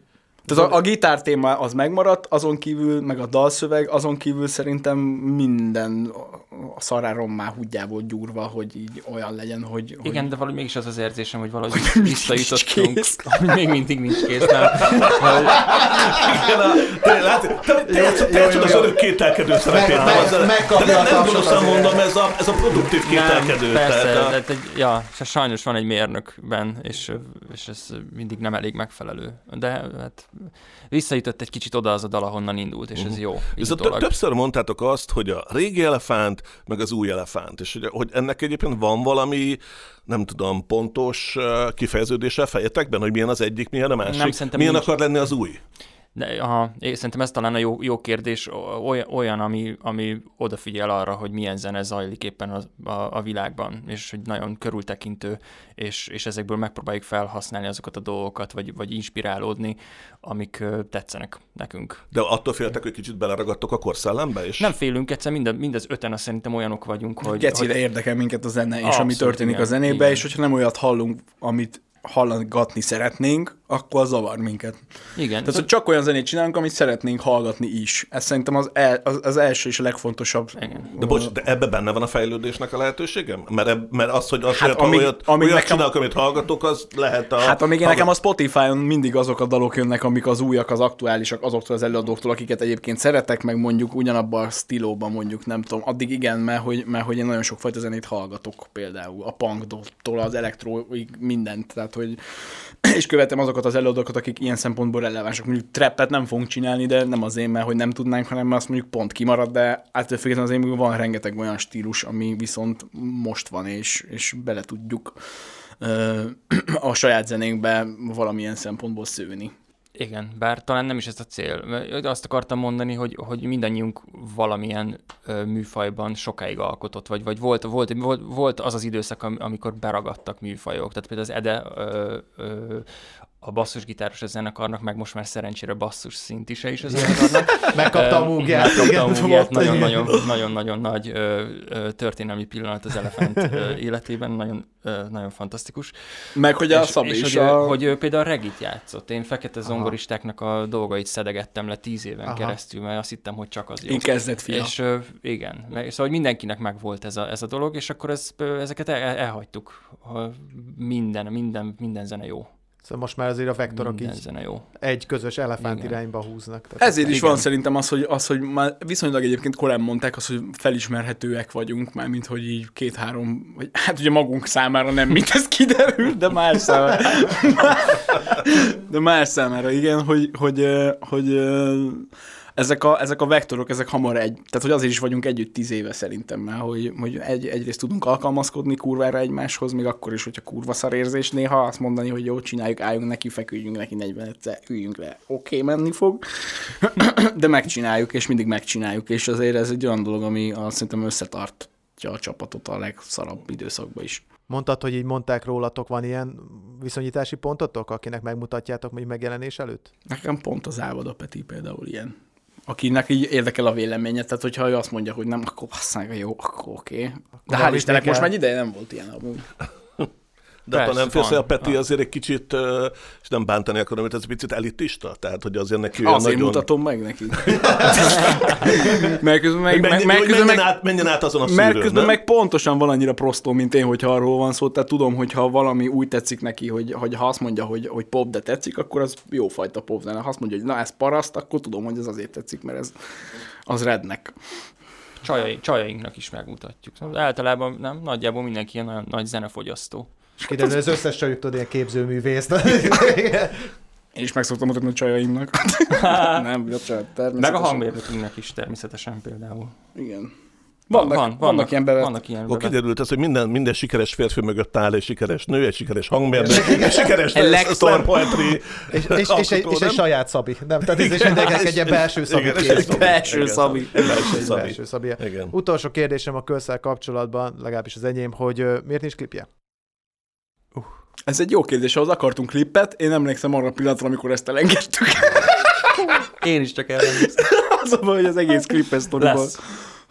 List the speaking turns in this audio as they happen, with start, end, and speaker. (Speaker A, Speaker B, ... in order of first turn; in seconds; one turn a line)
Speaker A: 0.5-0.8
Speaker B: 0.5-10.3
Speaker C: 10.0-15.7
Speaker B: 11.7-13.2
Speaker D: 14.6-24.4
Speaker A: 17.9-19.0
Speaker A: 19.6-22.1
Speaker C: 19.9-20.4
Speaker C: 23.0-34.1
Speaker D: 33.0-45.6
Speaker C: 44.1-44.9
Speaker C: 46.1-62.0
Speaker D: 62.1-64.7
Speaker C: 64.6-67.7
Speaker B: 67.2-74.8
Speaker C: 68.8-70.2
Speaker C: 75.2-75.7
Speaker B: 75.4-81.4
Speaker C: 80.6-80.9
Speaker D: 81.0-88.1
Speaker B: 84.5-85.9
Speaker B: 87.4-102.2
Speaker B: 102.8-115.2
Speaker B: 115.8-119.5
Speaker C: 120.0-132.9
Speaker C: 133.4-145.9
Speaker A: 137.0-140.2
Speaker B: 139.5-140.2
Speaker B: 146.3-147.8
Speaker C: 146.7-162.5
Speaker A: 152.3-152.6
Speaker B: 153.9-154.7
Speaker A: 162.8-164.2
Speaker C: 163.7-164.7
Speaker A: 164.8-167.4
Speaker C: 165.6-166.0
Speaker B: 166.8-204.2
Speaker C: 167.1-167.4
Speaker A: 204.5-209.9
Speaker B: 210.1-212.1
Speaker B: 212.7-219.5
Speaker A: 217.5-218.3
Speaker D: 220.7-226.7
Speaker C: 220.7-221.8
Speaker B: 226.0-230.8
Speaker D: 227.3-229.1
Speaker D: 229.7-232.2
Speaker B: 231.4-242.9
Speaker B: 243.7-244.3
Speaker C: 245.2-250.1
Speaker A: 250.4-253.7
Speaker B: 254.2-258.0
Speaker C: 255.9-256.4
Speaker C: 257.4-259.7
Speaker B: 259.9-260.3
Speaker B: 260.9-262.1
Speaker C: 260.9-262.8
Speaker D: 262.5-270.0
Speaker A: 266.3-267.2
Speaker B: 266.5-268.5
Speaker A: 268.9-273.3
Speaker D: 270.9-275.5
Speaker B: 272.6-274.6
Speaker A: 274.0-279.5
Speaker B: 281.3-286.1
Speaker C: 286.2-287.5
Speaker B: 287.0-289.6
Speaker C: 289.2-289.6